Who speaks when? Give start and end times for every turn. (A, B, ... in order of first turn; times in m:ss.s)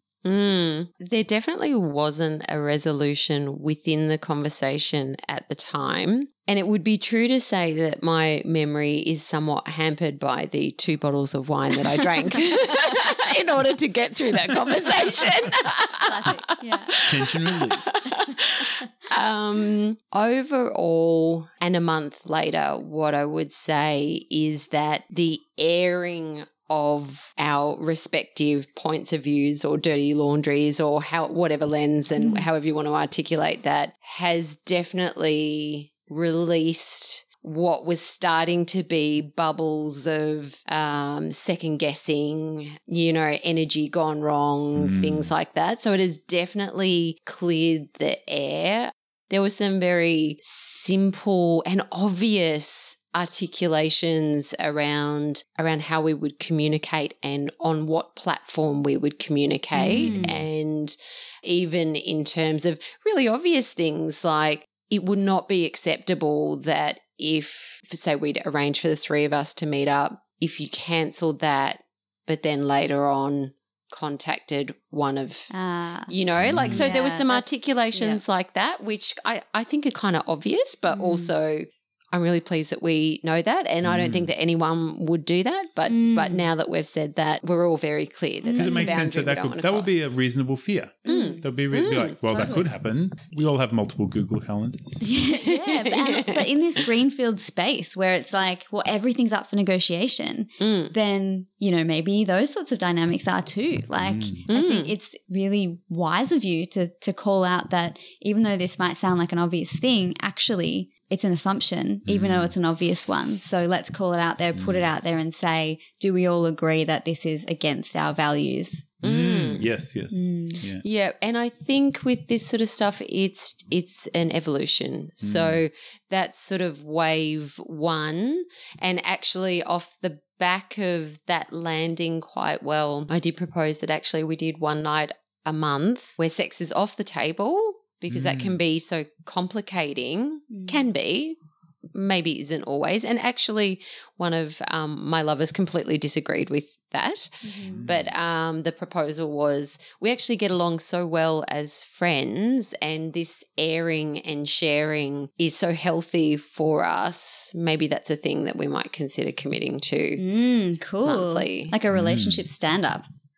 0:00.2-0:16.3 A
0:16.0-0:17.1 B
0:16.9-1:15.5 A
0:17.0-0:18.1 C
0:32.2-0:32.5 B
0:44.8-0:45.3 C
0:59.8-1:00.3 B
1:00.1-1:00.4 C
1:15.5-1:16.1 B
1:16.1-1:29.9 A
1:16.4-1:16.8 C
1:16.7-1:18.2 B
1:20.9-1:21.3 B
1:23.8-1:24.3 C
1:25.9-1:26.5 B
1:28.4-1:29.0 B
1:28.5-1:35.0 C
1:31.0-1:31.4 B
1:31.1-1:32.1 A
1:32.2-1:32.6 B
1:35.0-1:59.0 B
1:35.3-1:36.5 A
1:40.6-1:40.9 A
1:44.0-1:44.4 C
1:44.5-1:44.9 A
1:52.0-1:52.5 C
1:54.6-1:54.9 C
1:59.0-2:00.8 C
1:59.0-1:59.6 A
2:00.1-2:00.6 B
2:00.8-2:21.4 A
2:05.2-2:05.6 C
2:18.1-2:18.6 C
2:20.5-2:20.8 B
2:21.9-2:40.2 A
2:27.4-2:27.9 B
2:27.7-2:28.1 C
2:40.2-2:43.1 B
2:41.0-2:41.7 A
2:41.9-2:42.4 C